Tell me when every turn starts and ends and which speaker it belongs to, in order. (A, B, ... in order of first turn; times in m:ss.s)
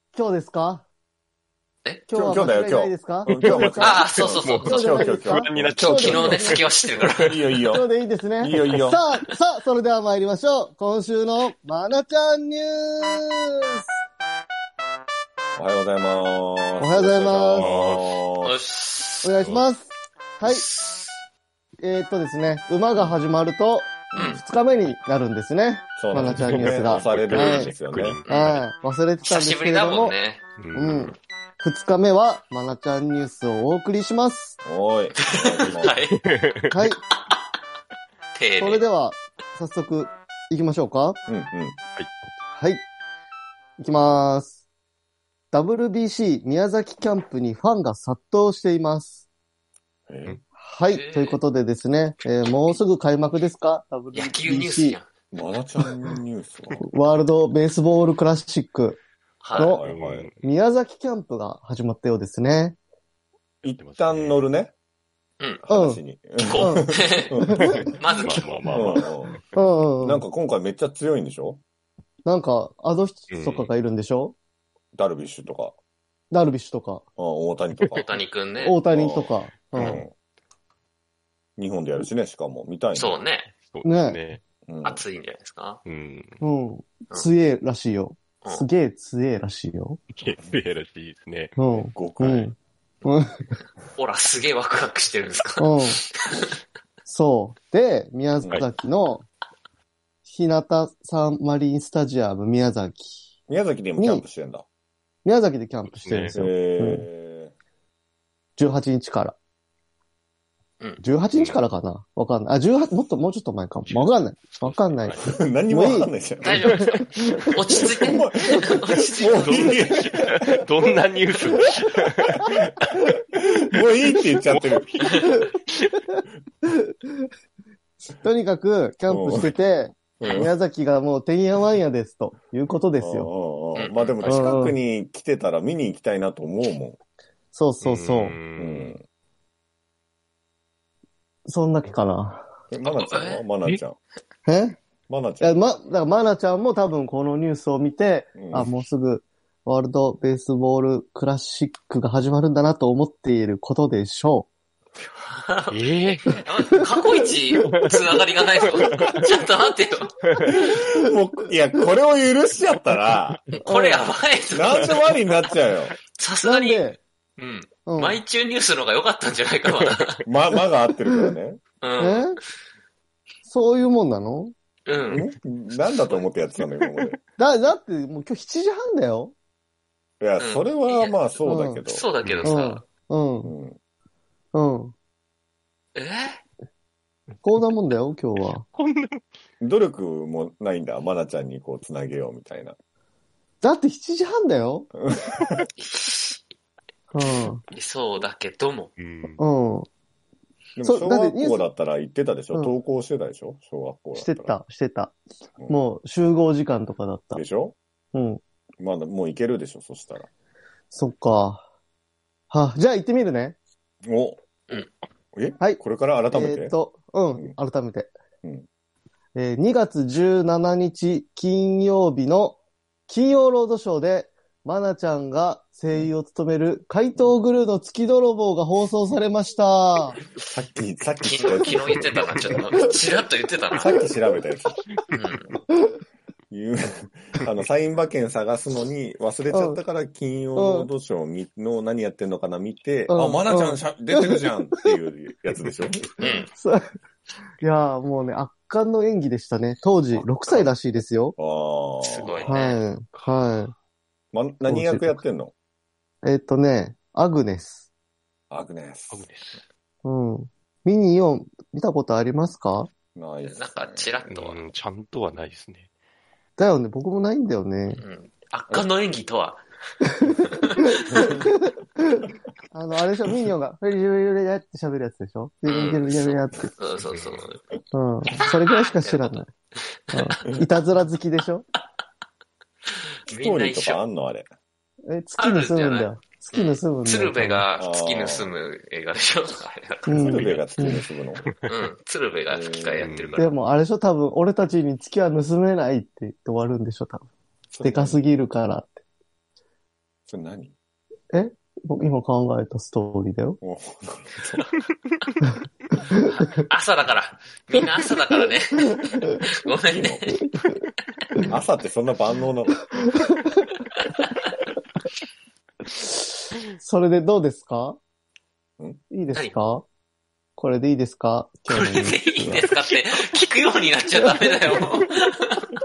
0:00.1-0:00.8 A
0:02.1-0:04.0 A
0:02.1-0:09.0 B
0:03.3-0:03.7 C
0:03.8-0:04.9 D
0:04.4-0:06.7 C
0:04.6-0:06.5 A
0:05.7-0:07.6 D
0:07.7-0:13.8 A
0:15.6-0:18.5 B
0:16.8-0:17.7 A
0:17.6-0:18.2 C
0:18.4-0:19.4 D
0:19.2-0:20.6 A
0:19.4-0:19.6 C
0:20.4-0:21.2 D
0:21.8-0:27.7 A
0:24.1-0:24.4 B
0:24.1-0:24.4 D
0:26.0-0:28.2 B
0:26.1-0:28.3 C
0:28.2-0:28.6 D
0:28.3-0:30.1 A
0:29.2-0:30.4 D
0:30.6-0:31.0 C
0:30.7-0:34.6 A
0:34.6-0:35.9 B
0:35.2-0:36.2 D
0:35.6-0:36.8 C
0:36.7-0:37.0 A
0:38.3-0:38.8 D
0:38.6-0:41.2 A
0:41.3-0:41.8 B
0:42.6-0:42.8 A
0:43.8-0:44.5 A
0:45.5-0:49.2 A
0:50.1-0:50.4 B
0:50.6-0:55.0 A
0:50.8-0:51.4 D
0:54.1-0:55.1 D
0:55.3-0:56.8 B
0:55.8-0:56.2 A
0:56.8-0:59.0 A
0:59.4-0:59.7 D
0:59.6-0:59.8 A
0:59.7-1:00.3 B
0:59.8-1:00.5 C
1:00.4-1:02.8 A
1:03.6-1:04.7 B
1:03.8-1:04.4 C
1:05.6-1:07.9 B
1:05.7-1:06.9 A
1:06.4-1:07.4 D
1:07.4-1:07.9 A
1:07.6-1:09.4 C
1:08.0-1:08.5 D
1:08.6-1:09.0 A
1:08.7-1:09.4 B
1:09.5-1:10.2 A
1:10.0-1:11.6 B
1:12.3-1:14.3 A
1:13.3-1:13.7 C
1:14.9-1:15.8 B
1:16.3-1:17.0 A
1:17.2-1:18.1 B
1:18.0-1:18.8 D
1:18.6-1:20.0 A
1:18.9-1:20.1 B
1:21.6-1:23.2 B
1:22.9-1:23.5 D
1:23.7-1:24.4 C
1:23.8-1:24.2 A
1:24.7-1:25.0 B
1:24.8-1:25.8 D
1:25.8-1:26.4 C
1:26.4-1:30.0 A
1:28.4-1:28.7 D
1:30.2-1:31.6 C
1:31.6-1:33.4 A
1:31.9-1:32.5 B
1:33.9-1:36.5 D
1:35.6-1:36.0 A
1:37.1-1:39.2 A
1:40.3-1:43.2 A
1:43.5-1:44.6 B
1:44.0-1:44.3 A
1:45.2-1:47.0 A
1:45.9-1:46.4 C
1:46.3-1:47.5 B
1:48.6-1:49.3 A
1:51.0-1:58.0 A
1:51.3-1:51.6 C
1:53.9-1:55.3 C
1:55.2-1:56.8 B
1:56.4-1:59.8 D
1:58.0-2:00.9 B
1:59.3-2:02.6 C
2:02.9-2:04.9 B
2:04.4-2:05.9 C
2:05.1-2:05.5 D
2:06.7-2:07.1 A
2:08.2-2:13.3 A
2:09.1-2:09.5 B
2:10.2-2:10.5 B
2:10.2-2:10.5 D
2:13.0-2:17.0 B
2:13.8-2:14.4 D
2:14.2-2:14.8 A
2:17.5-2:18.4 A
2:17.8-2:19.0 C
2:18.6-2:19.0 B
2:21.5-2:22.4 A
2:22.7-2:24.0 B
2:22.8-2:23.4 D
2:24.5-2:24.8 A
2:25.1-2:25.6 B
2:25.4-2:34.5 A
2:28.4-2:28.9 B
2:35.2-2:40.1 D
2:35.7-2:36.4 C
2:37.6-2:38.0 C
2:38.6-2:39.1 C
2:40.2-2:40.6 C
2:40.5-2:43.4 B
2:43.6-2:45.2 D
2:43.6-2:44.1 A
2:44.5-2:45.9 B
2:46.1-2:50.2 D
2:46.4-2:47.0 A
2:47.8-2:48.2 A
2:50.2-2:51.6 B
2:51.1-2:51.3 A
2:51.8-2:52.3 D
2:52.0-2:52.4 A
2:53.5-2:54.5 A
2:54.9-2:56.6 D
2:55.1-2:57.2 B
2:57.4-2:59.3 A
3:00.2-3:02.1 B
3:00.4-3:02.8 D
3:01.4-3:01.8 A
3:02.2-3:02.5 C
3:02.4-3:03.5 A
3:03.4-3:03.8 B
3:04.5-3:04.9 A
3:05.9-3:06.4 D
3:07.4-3:08.6 A
3:08.4-3:09.2 C
3:09.6-3:12.8 B
3:13.6-3:14.9 A
3:15.0-3:15.7 B
3:15.8-3:16.4 D
3:17.1-3:17.6 A
3:17.7-3:18.9 D
3:19.0-3:19.4 C
3:19.4-3:19.9 A
3:20.8-3:24.6 B
3:20.8-3:21.6 A
3:24.1-3:25.2 A
3:25.7-3:27.4 A
3:27.3-3:27.8 B
3:28.1-3:28.4 A
3:28.8-3:30.3 B
3:30.9-3:31.6 A
3:32.5-3:33.6 A
3:34.0-3:34.4 B
3:35.3-3:36.8 B
3:35.6-3:38.1 A
3:39.4-3:50.2 A
3:50.5-3:52.9 B
3:51.2-3:54.0 D
3:52.0-3:52.3 C
3:53.7-3:54.8 B
3:55.1-3:55.6 D
3:56.5-4:06.0 B
3:59.5-3:59.8 A
4:00.6-4:00.9 A
4:03.1-4:04.9 A
4:06.1-4:06.8 A
4:06.2-4:06.5 D
4:07.6-4:11.3 A
4:11.4-4:12.5 B
4:12.0-4:12.8 D
4:12.4-4:13.7 A
4:14.3-4:15.5 B
4:14.6-4:15.2 A
4:16.2-4:17.8 A
4:18.5-4:19.2 B
4:19.1-4:19.6 C
4:20.0-4:22.9 A
4:23.1-4:24.2 B
4:23.4-4:24.6 D
4:24.3-4:25.9 C
4:26.6-4:28.0 A
4:27.9-4:29.6 D
4:30.3-4:31.0 D
4:31.2-4:31.5 A
4:32.2-4:36.7 A
4:35.6-4:37.6 D
4:37.1-4:37.4 C
4:37.9-4:39.5 A
4:38.4-4:39.4 D
4:40.1-4:41.6 A
4:43.3-4:44.0 D
4:43.3-4:44.5 B
4:45.1-4:47.6 A
4:45.4-4:50.6 D
4:47.7-4:48.5 B
4:50.1-4:51.0 A
4:50.2-4:51.5 B
4:51.7-4:53.6 D
4:52.5-4:53.1 B
4:53.0-4:53.4 C
4:53.4-4:57.2 A
4:57.7-4:58.2 B
4:57.8-4:59.0 A
5:00.3-5:00.7 B
5:01.3-5:03.6 A
5:03.6-5:04.7 B
5:06.2-5:10.5 D
5:09.9-5:10.4 B
5:11.5-5:12.8 B
5:13.2-5:13.4 A
5:16.7-5:18.0 A
5:19.1-5:19.8 A
5:19.3-5:19.8 D
5:20.6-5:22.6 A
5:21.7-5:25.7 D